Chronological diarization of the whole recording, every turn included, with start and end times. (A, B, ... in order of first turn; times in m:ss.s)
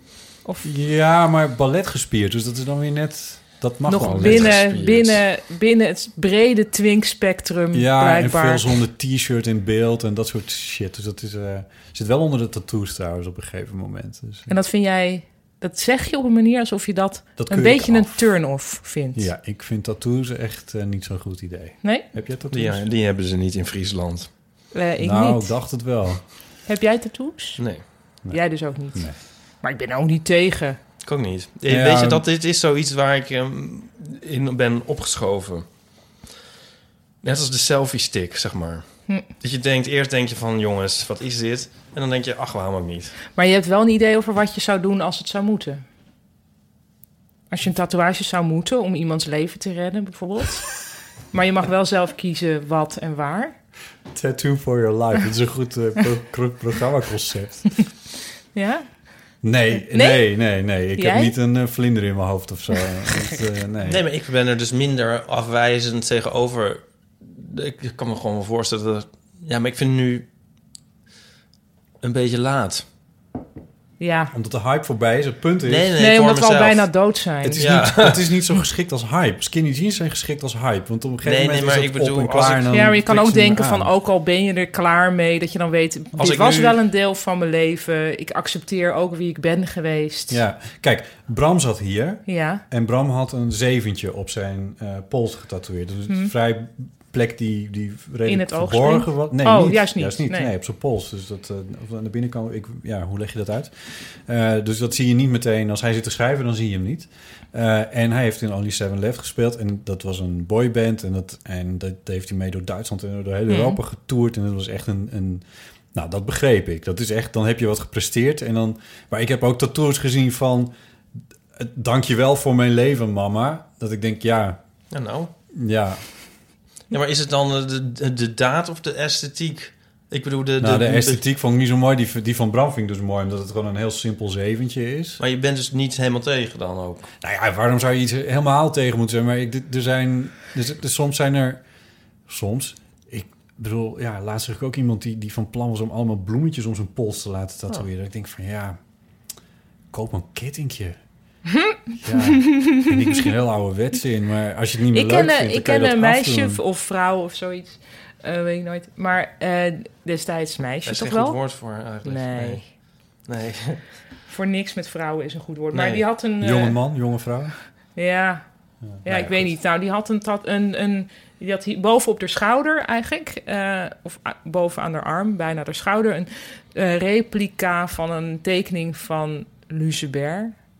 0:00.6-0:04.6 A
0:03.8-0:08.8 B
0:04.0-0:05.2 C
0:07.7-0:14.5 A
0:14.5-0:19.3 B
0:17.4-0:18.2 A
0:19.1-0:22.8 A
0:22.5-0:24.3 C
0:24.7-0:25.5 B
0:25.0-0:26.2 A
0:26.6-0:27.6 B
0:27.6-0:27.8 C
0:28.3-0:30.8 B
0:31.0-0:35.6 C
0:31.7-0:32.2 A
0:37.2-0:38.8 C
0:39.4-0:43.1 C
0:43.3-0:45.8 B
0:47.5-0:50.8 B
0:51.3-0:53.5 B
0:54.1-0:57.8 A
0:58.5-0:58.9 B
0:59.4-1:04.0 A
0:59.8-1:00.3 B
1:01.0-1:01.3 B
1:03.8-1:10.2 C
1:12.0-1:12.8 C
1:14.0-1:14.3 B
1:14.3-1:15.9 A
1:15.6-1:16.9 C
1:16.0-1:17.7 B
1:17.4-1:23.9 A
1:17.6-1:18.3 C
1:21.2-1:22.7 C
1:22.7-1:30.4 B
1:26.2-1:26.8 C
1:30.3-2:00.7 A
1:32.2-1:32.6 B
1:38.2-1:40.5 B
1:53.5-1:53.8 B
2:01.5-2:04.6 A
2:04.9-2:05.3 C
2:05.5-2:06.0 A
2:06.9-2:11.2 C
2:10.6-2:15.2 A
2:15.2-2:17.1 C
2:17.2-2:21.6 A
2:22.3-2:28.8 A
2:29.9-2:31.0 A
2:31.5-2:32.9 B
2:32.0-2:36.6 A
2:34.9-2:41.4 B
2:40.8-2:43.8 C
2:42.0-2:42.7 B
2:44.2-2:46.8 B
2:45.7-2:46.0 C
2:46.4-2:47.5 A
2:47.9-2:48.4 B
2:48.9-2:49.2 A
2:49.0-3:00.6 B
2:49.1-2:49.4 C